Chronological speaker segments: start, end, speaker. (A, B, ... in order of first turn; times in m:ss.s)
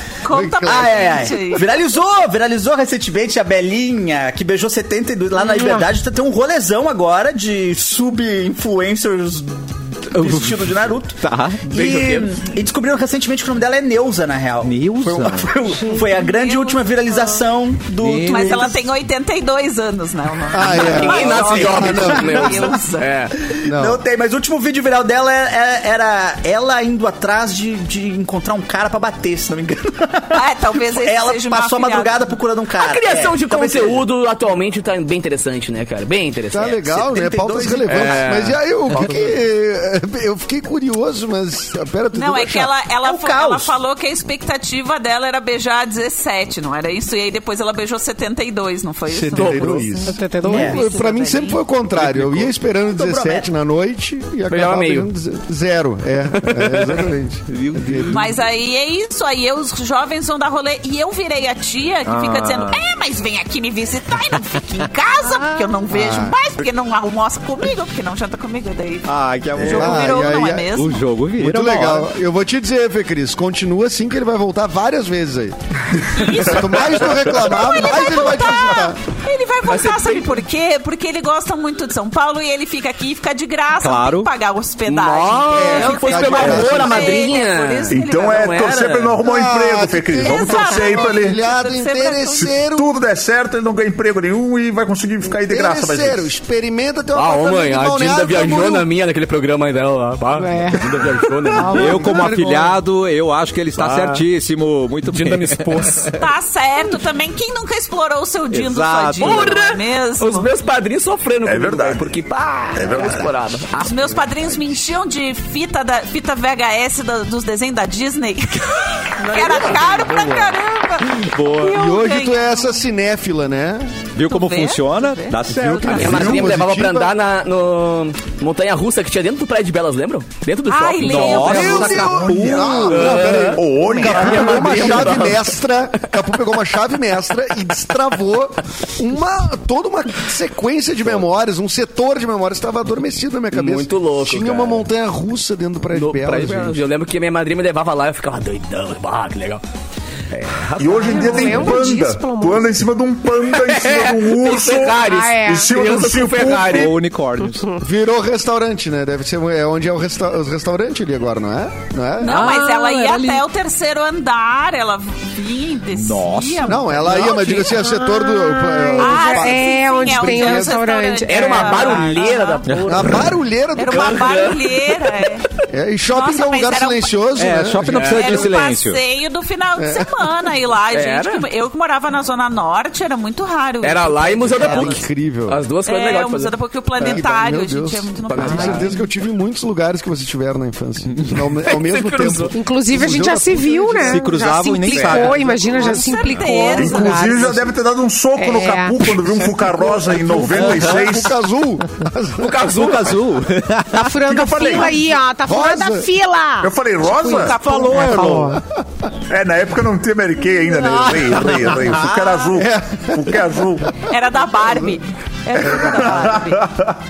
0:00.2-0:01.7 A
0:00.3-0:01.0 B
0:00.6-0:18.8 C
0:05.4-0:05.8 D
0:10.2-0:11.6 E
0:11.7-0:12.3 F
0:14.6-0:15.6 E
0:15.9-0:17.4 A
0:18.0-0:18.7 E
0:18.3-0:23.2 A
0:20.5-0:22.7 B
0:20.6-0:23.4 F
0:23.5-0:34.1 C
0:23.6-0:24.0 B
0:30.3-0:32.3 A
0:32.8-0:39.4 F
0:36.5-0:42.7 B
0:42.1-0:51.6 A
0:43.0-0:43.8 C
0:49.1-0:58.2 B
0:49.3-0:49.9 F
0:50.0-0:50.7 D
0:50.4-0:50.8 C
0:52.0-0:52.5 E
0:52.8-0:53.5 C
0:54.5-0:55.1 F
0:56.4-0:57.1 F
0:57.5-0:58.3 E
0:58.1-1:11.0 A
1:02.1-1:02.8 E
1:05.9-1:06.4 B
1:09.1-1:12.1 E
1:09.6-1:10.7 B
1:11.4-1:15.6 B
1:16.1-1:28.6 A
1:16.1-1:19.0 B
1:19.6-1:20.4 F
1:23.8-1:24.3 E
1:24.9-1:29.2 F
1:25.5-1:27.2 B
1:27.9-1:31.4 G
1:29.2-1:33.0 B
1:30.2-1:32.5 A
1:32.6-1:36.3 G
1:35.5-1:38.9 B
1:37.1-1:42.4 F
1:40.4-1:42.6 D
1:41.7-1:46.0 E
1:43.8-1:44.2 F
1:45.1-1:46.2 F
1:46.2-1:50.5 A
1:48.5-1:49.6 E
1:49.2-1:54.3 F
1:51.4-1:52.2 G
1:52.8-1:53.3 G
1:53.8-2:02.7 A
1:59.2-2:00.5 F
2:01.2-2:01.8 E
2:01.7-2:04.0 B
2:04.2-2:06.4 E
2:04.3-2:06.4 A
2:05.6-2:07.2 B
2:05.8-2:15.5 F
2:10.7-2:12.2 A
2:11.0-2:13.1 E
2:11.5-2:26.8 B
2:11.7-2:15.1 G
2:23.5-2:24.9 F
2:25.9-2:29.6 F
2:30.3-2:31.8 F
2:30.8-2:36.9 G
2:31.0-2:32.7 D
2:33.4-2:36.9 F
2:35.0-2:35.8 D
2:36.7-2:37.7 E
2:37.8-2:42.5 B
2:42.2-2:47.7 A
2:42.3-2:43.4 E
2:45.9-2:47.2 E
2:46.6-2:50.8 B
2:47.6-2:52.2 D
2:49.0-2:52.7 A
2:51.3-2:53.3 F
2:52.7-2:53.0 E
2:52.9-2:54.3 B
2:53.8-2:55.4 A
2:53.9-2:55.1 F
2:55.7-2:58.2 B
2:56.1-2:57.1 A
2:57.4-2:59.0 E
2:57.9-2:58.6 F
2:58.0-3:05.0 A
2:59.8-3:00.1 B
3:00.9-3:01.4 F
3:03.8-3:07.2 F
3:04.6-3:05.6 B
3:05.8-3:09.0 A
3:07.0-3:14.3 B
3:08.3-3:09.0 F
3:11.6-3:12.5 F
3:12.5-3:17.6 D
3:14.0-3:16.4 E
3:15.6-3:17.3 A
3:16.8-3:21.4 G
3:17.3-3:17.6 B
3:18.4-3:19.0 D
3:19.4-3:22.8 B
3:20.6-3:21.0 E
3:22.4-3:23.2 F
3:22.7-3:24.2 E
3:23.9-3:28.6 D
3:24.2-3:25.1 G
3:25.4-3:26.1 B
3:26.6-3:27.6 G
3:27.3-3:28.1 A
3:27.5-3:28.6 E
3:29.3-3:34.0 G
3:30.8-3:32.6 E
3:32.6-3:34.1 B
3:34.0-3:36.7 A
3:34.6-3:34.9 B
3:35.6-3:36.4 B
3:36.3-3:36.9 G